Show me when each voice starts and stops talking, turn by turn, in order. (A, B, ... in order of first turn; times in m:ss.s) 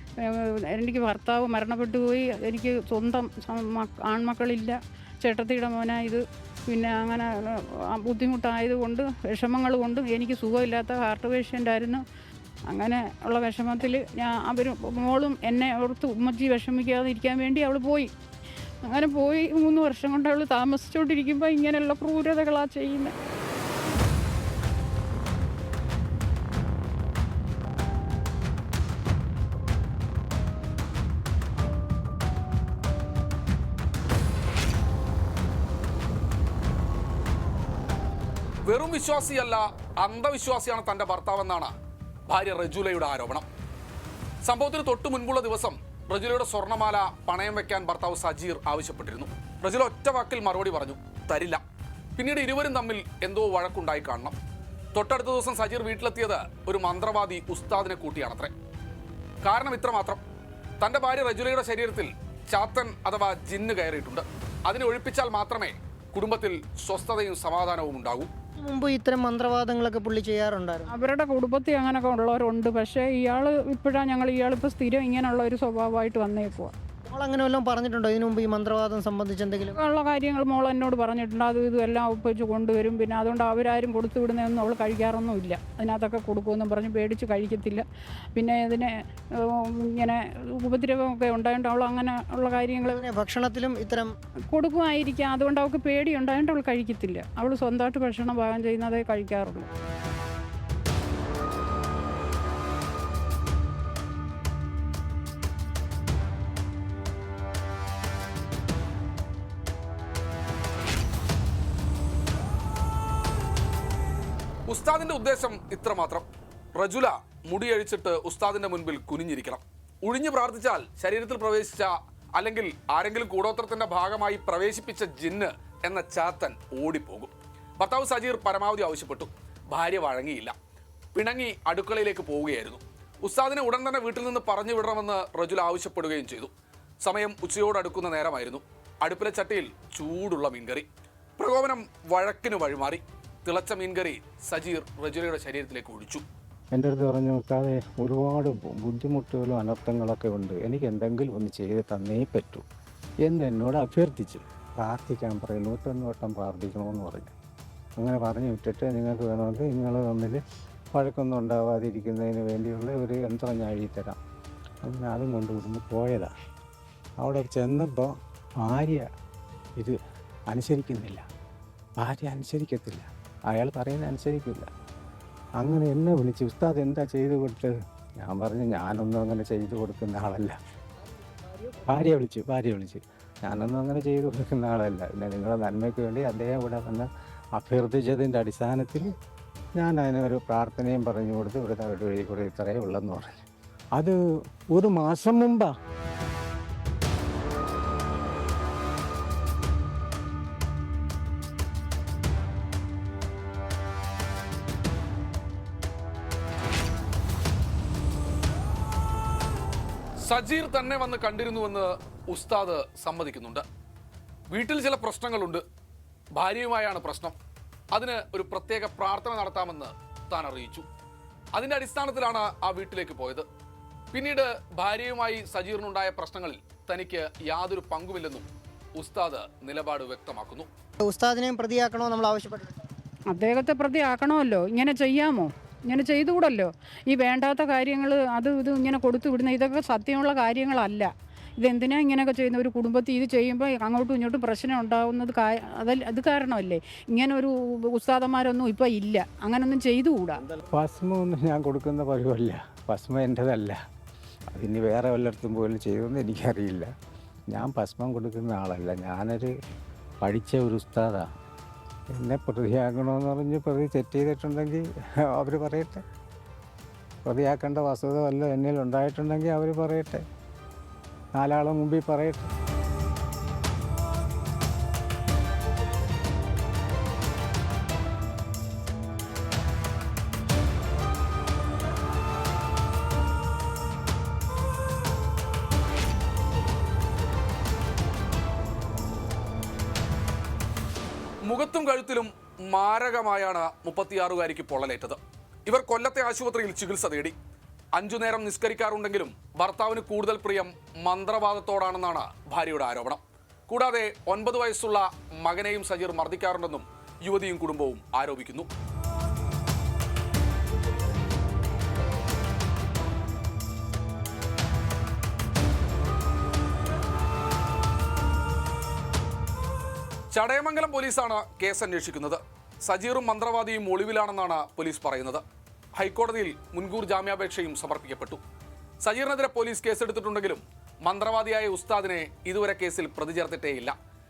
0:00.3-0:12.0 A
0:12.7-0:18.1 A
0:18.9-0:23.1 A
0:38.7-0:41.7 B
0:42.3-0:43.4 B
0:44.4-0:51.6 B
0:52.2-0:54.4 B
0:54.9-0:58.5 B
0:59.4-1:00.2 B
1:00.8-1:08.3 B
1:08.6-1:10.9 C
1:10.9-1:16.7 A
1:17.1-1:19.8 C
1:19.7-1:27.8 A
1:28.4-1:28.9 A
1:30.0-1:33.0 A
1:32.9-1:34.1 C
1:34.5-1:39.7 A
1:54.7-1:56.2 B
1:56.8-2:10.5 B
2:11.1-2:16.5 B
2:17.0-2:20.9 B
2:21.4-2:26.2 B
2:26.7-2:32.6 D
2:33.2-2:37.3 D
2:38.0-2:40.4 D
2:40.9-2:44.2 D
2:44.8-2:46.3 D
2:47.2-2:48.1 D
2:48.6-2:49.0 D
2:50.5-2:51.2 D
2:52.0-2:54.6 D
2:55.6-2:57.7 D
2:58.2-3:00.5 D
3:01.9-3:09.1 D
3:09.8-3:13.4 D
3:14.7-3:15.7 D
3:30.2-3:33.6 B
3:34.5-3:35.6 B
3:36.4-3:37.4 B
3:37.9-3:40.8 B
3:41.5-3:43.4 B
3:44.1-3:48.4 B
3:49.0-3:50.7 B
3:51.0-3:52.8 C
3:53.3-4:01.1 A
4:01.6-4:10.4 A
4:10.7-4:13.8 D
4:14.5-4:16.9 D
4:17.5-4:19.5 D
4:20.2-4:21.2 D
4:22.1-4:24.8 D
4:25.3-4:26.0 D
4:27.2-4:30.2 D
4:31.4-4:32.5 D
4:51.5-4:57.3 B
4:57.9-5:08.7 B
5:20.3-5:25.4 B
5:26.0-5:28.4 B
5:29.0-5:33.9 B